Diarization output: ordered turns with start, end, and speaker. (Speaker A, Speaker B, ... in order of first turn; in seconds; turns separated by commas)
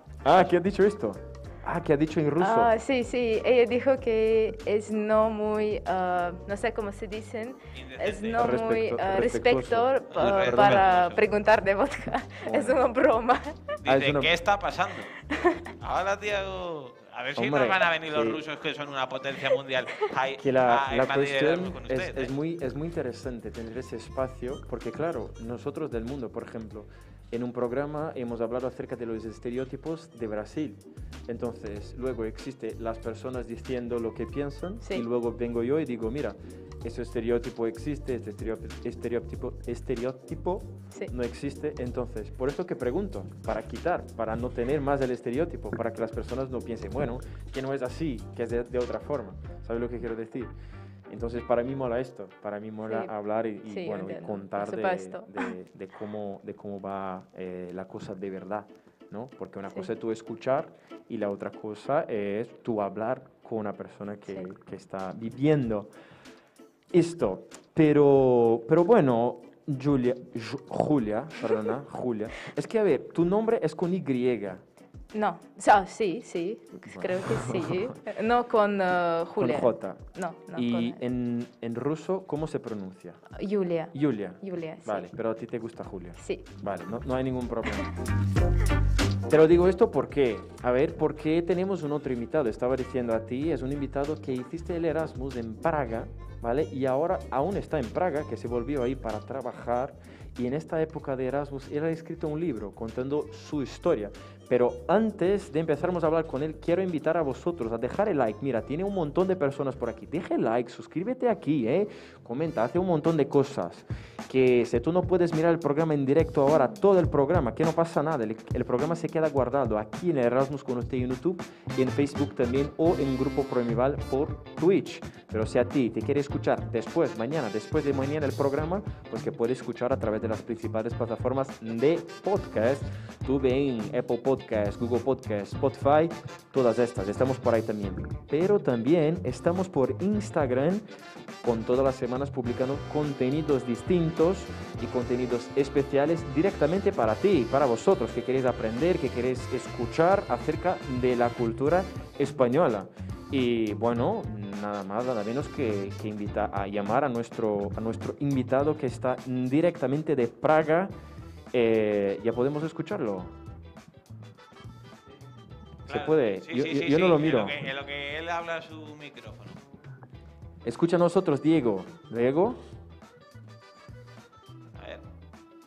Speaker A: 0.2-2.7, Speaker B: 2.4-13.7, Speaker C: 7.8-8.4, Speaker A: 8.4-10.9, Speaker C: 10.1-11.3, Speaker A: 12.4-12.8, Speaker C: 13.8-15.1, Speaker A: 13.9-14.3, Speaker B: 15.3-15.7, Speaker C: 15.8-22.3, Speaker A: 17.4-18.4, Speaker A: 20.4-50.5, Speaker A: 51.1-65.9, Speaker B: 52.9-53.1, Speaker B: 53.6-55.5, Speaker A: 66.9-74.6, Speaker B: 75.1-81.0, Speaker A: 76.8-78.0, Speaker A: 79.4-83.2, Speaker B: 83.3-85.1, Speaker A: 83.9-87.9, Speaker B: 86.2-86.5, Speaker A: 89.3-140.9, Speaker A: 141.4-160.9, Speaker A: 161.5-163.3, Speaker A: 165.9-167.6, Speaker C: 165.9-169.6, Speaker A: 170.7-172.6, Speaker C: 174.8-175.0